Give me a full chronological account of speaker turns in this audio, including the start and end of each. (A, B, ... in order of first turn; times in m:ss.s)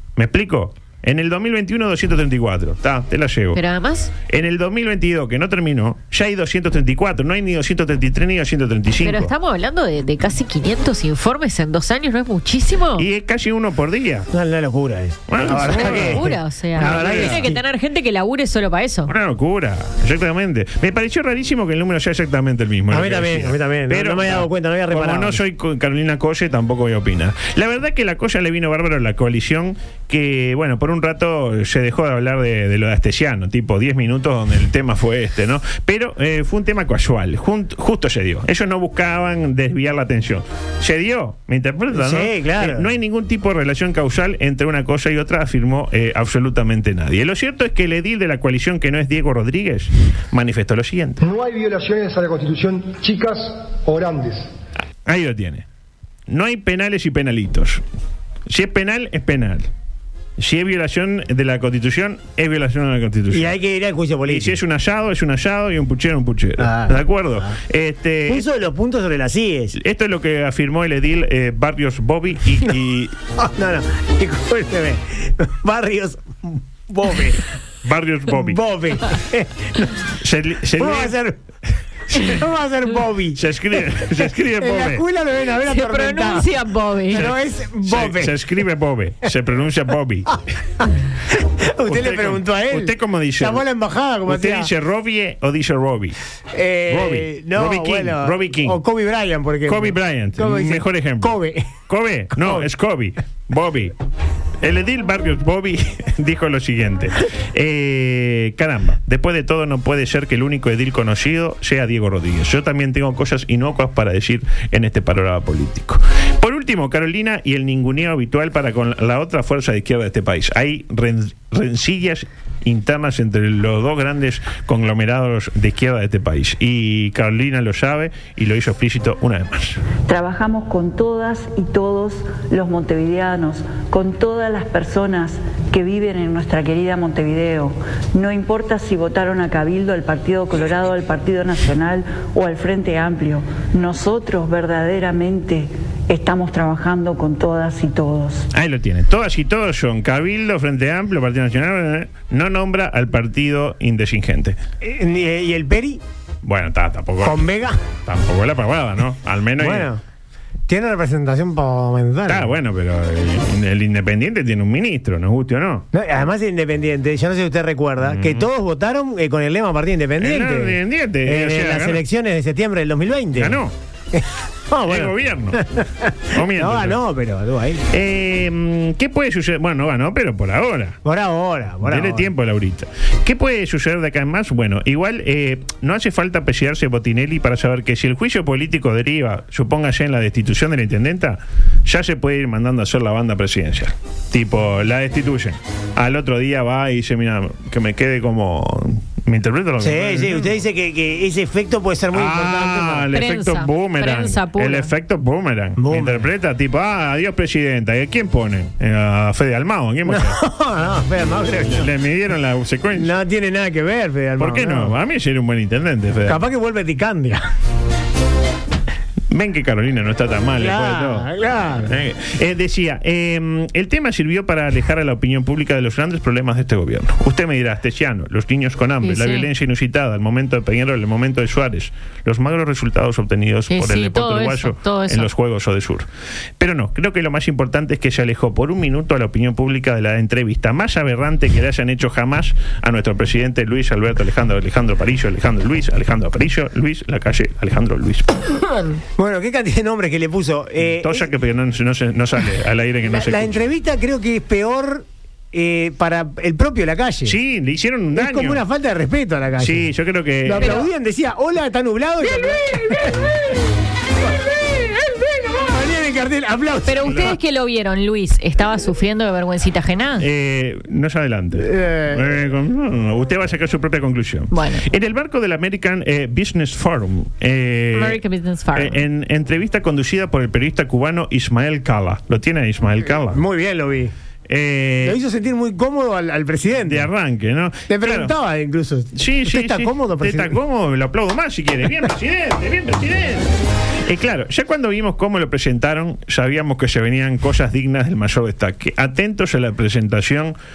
0:00.2-0:03.6 A
0:03.5-0:04.1 B
0:04.2-0:09.3 A
0:09.0-0:13.0 B
0:13.0-0:14.3 A
0:14.3-0:17.6 C
0:15.3-0:16.2 A
0:15.6-0:19.1 B
0:16.8-0:17.4 A
0:19.1-0:51.2 A
0:22.9-0:25.4 C
0:41.9-0:42.9 C
0:51.2-0:54.5 D
0:55.0-0:55.6 A
0:56.3-0:57.8 A
0:58.5-0:59.7 A
1:00.4-1:03.6 A
1:03.3-1:04.6 C
1:04.3-1:08.5 A
1:06.6-1:07.0 C
1:08.3-1:09.8 C
1:09.8-1:13.1 A
1:13.4-1:17.4 C
1:17.8-1:18.6 A
1:18.3-1:20.1 C
1:20.2-1:21.1 A
1:20.8-1:21.4 C
1:22.1-1:23.4 C
1:23.4-1:25.0 A
1:24.6-1:26.5 C
1:25.6-1:27.3 B
1:27.1-1:28.4 C
1:27.1-1:30.3 A
1:31.6-1:34.7 C
1:31.8-1:33.6 A
1:34.2-1:36.2 A
1:36.5-1:41.7 C
1:36.9-1:38.8 A
1:39.6-1:43.9 A
1:42.3-1:42.7 C
1:44.6-2:09.8 A
2:10.1-2:28.5 E
2:28.5-2:34.6 A
2:34.8-2:36.0 C
2:36.4-2:37.4 A
2:37.2-2:37.8 C
2:38.0-2:39.9 A
2:39.6-2:40.0 C
2:40.7-2:42.5 C
2:42.2-2:45.9 A
2:45.9-2:53.6 C
2:48.0-2:48.5 A
2:50.2-2:52.0 A
2:53.4-2:53.7 A
2:54.1-2:57.8 C
2:54.8-2:55.6 A
2:56.3-2:57.0 A
2:57.9-3:01.0 A
3:01.0-3:02.3 C
3:01.8-3:20.5 A
3:19.8-3:23.1 C
3:22.1-3:30.4 A
3:23.1-3:24.9 B
3:25.8-3:26.3 C
3:30.0-3:31.9 C
3:31.7-3:33.2 A
3:32.9-3:34.9 C
3:34.4-3:36.4 A
3:36.2-3:37.4 C
3:39.3-3:41.3 A
3:40.6-3:41.9 C
3:41.9-3:56.1 A
3:49.0-3:49.5 B
3:53.7-3:55.3 B
3:56.6-4:08.3 A
4:09.2-4:11.3 C
4:11.0-4:13.6 A
4:13.1-4:17.4 C
4:17.2-4:18.6 A
4:18.1-4:19.9 C
4:19.6-4:20.9 A
4:20.4-4:23.3 C
4:20.6-4:20.9 B
4:22.3-4:23.0 B
4:24.6-4:27.2 C
4:26.8-4:30.2 B
4:27.0-4:27.3 A
4:30.2-4:38.2 A
4:31.6-4:32.3 C
4:34.5-4:34.8 B
4:37.9-4:39.0 B
4:38.7-4:43.4 A
4:43.3-4:44.1 C
4:44.5-4:45.2 A
4:45.0-4:47.1 C
4:46.8-4:48.3 A
4:47.9-4:50.6 C
4:49.1-4:53.5 A
4:54.0-5:00.5 A